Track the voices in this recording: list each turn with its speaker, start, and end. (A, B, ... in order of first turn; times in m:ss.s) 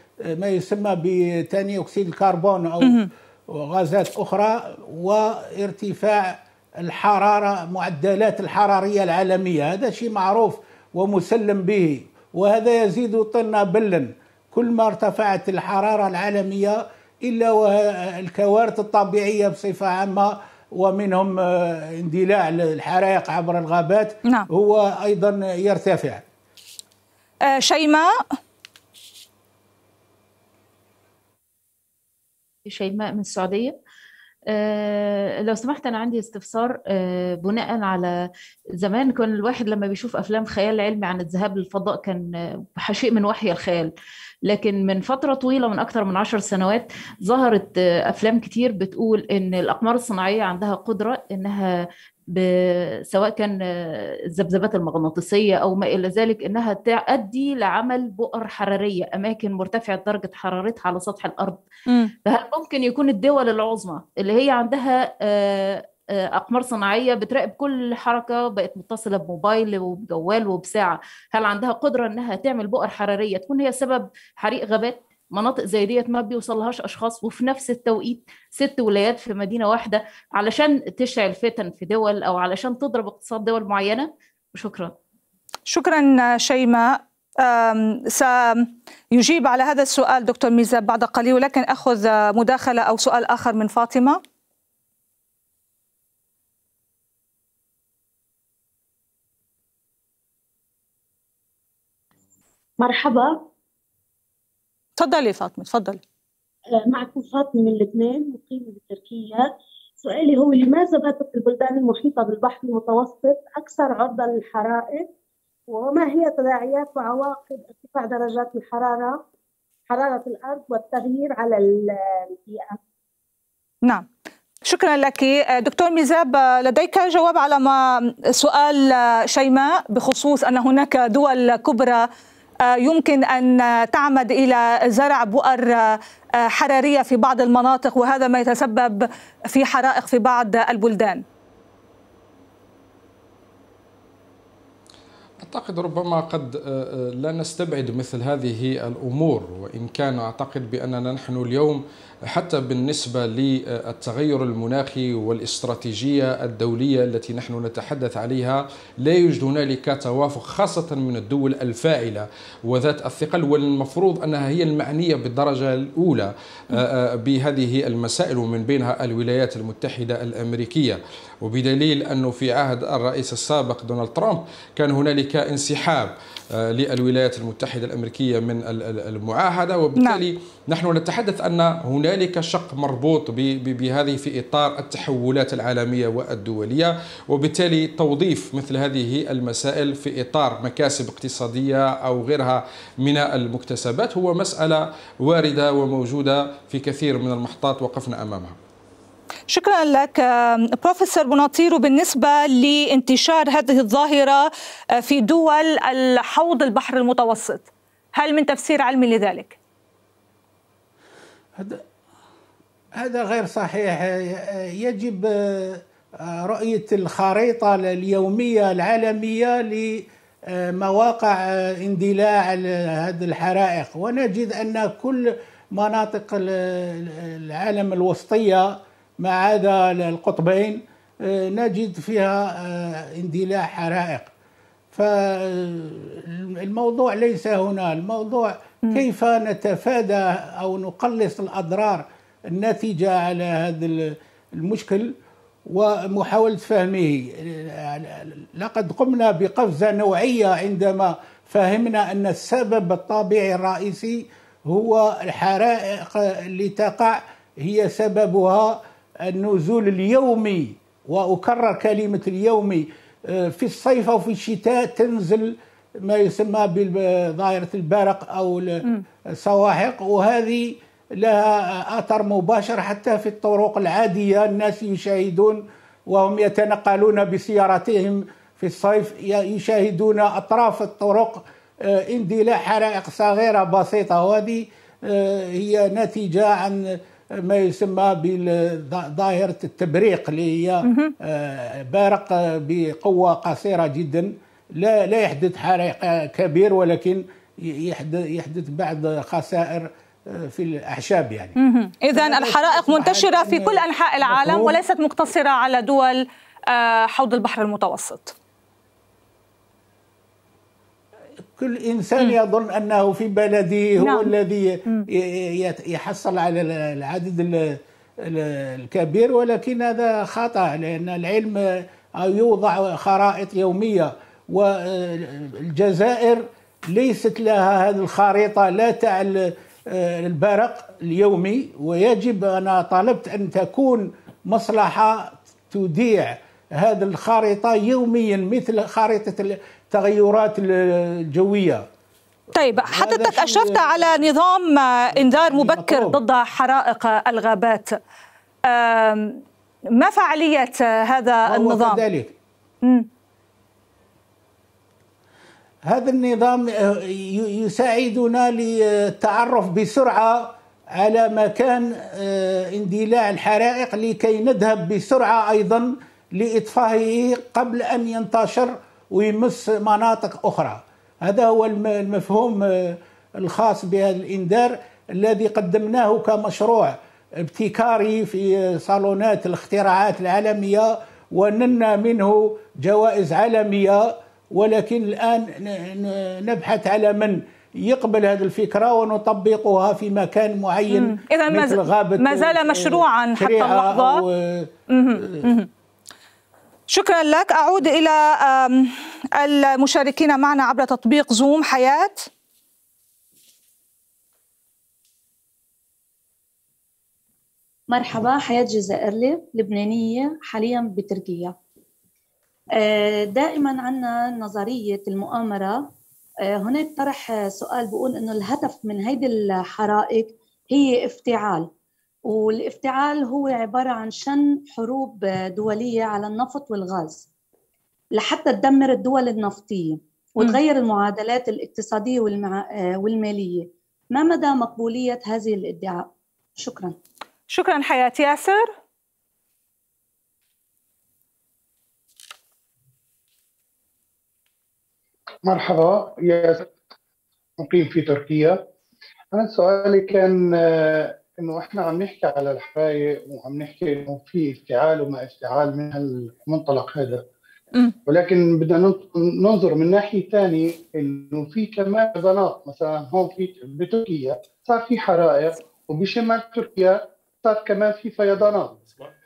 0:00.2-0:26.2 A
0:02.8-0:03.1 B
0:27.5-0:28.2 B
0:32.7-0:33.8 C
0:34.5-0:38.1 C
0:38.8-0:43.9 C
0:44.5-1:01.6 C
1:01.9-1:02.1 B
1:02.3-1:25.0 C
1:25.7-1:34.2 B
1:42.8-1:43.5 D
1:45.0-1:46.0 B
1:46.9-1:55.1 D
1:55.7-1:59.2 D
1:59.9-2:02.8 D
2:04.6-2:12.1 B
2:12.6-2:21.2 B
2:25.4-3:18.6 E
3:19.5-3:29.6 B
3:31.6-3:31.8 A
3:33.0-3:54.3 A
3:54.9-4:05.2 A
4:05.7-5:01.6 A
4:50.9-4:51.1 B
5:01.6-5:08.3 B
5:02.1-5:04.8 A
5:11.6-5:41.9 A
5:14.0-5:14.3 B
5:42.6-5:48.0 B
5:42.6-5:43.9 A
5:45.2-5:46.2 A
5:48.7-5:49.4 B
5:49.9-5:52.0 B
5:51.5-5:52.3 A
5:55.8-6:35.5 A
6:30.9-6:34.2 B
6:34.9-6:35.7 B
6:36.9-6:42.3 B
6:47.9-6:51.6 F
6:52.8-6:55.9 F
6:56.5-7:01.7 F
7:02.3-7:07.3 F
7:08.1-7:17.0 F
7:17.5-7:18.7 B
7:25.4-7:26.7 G
7:27.6-7:28.7 G
7:29.3-7:37.3 G
7:38.1-7:49.0 G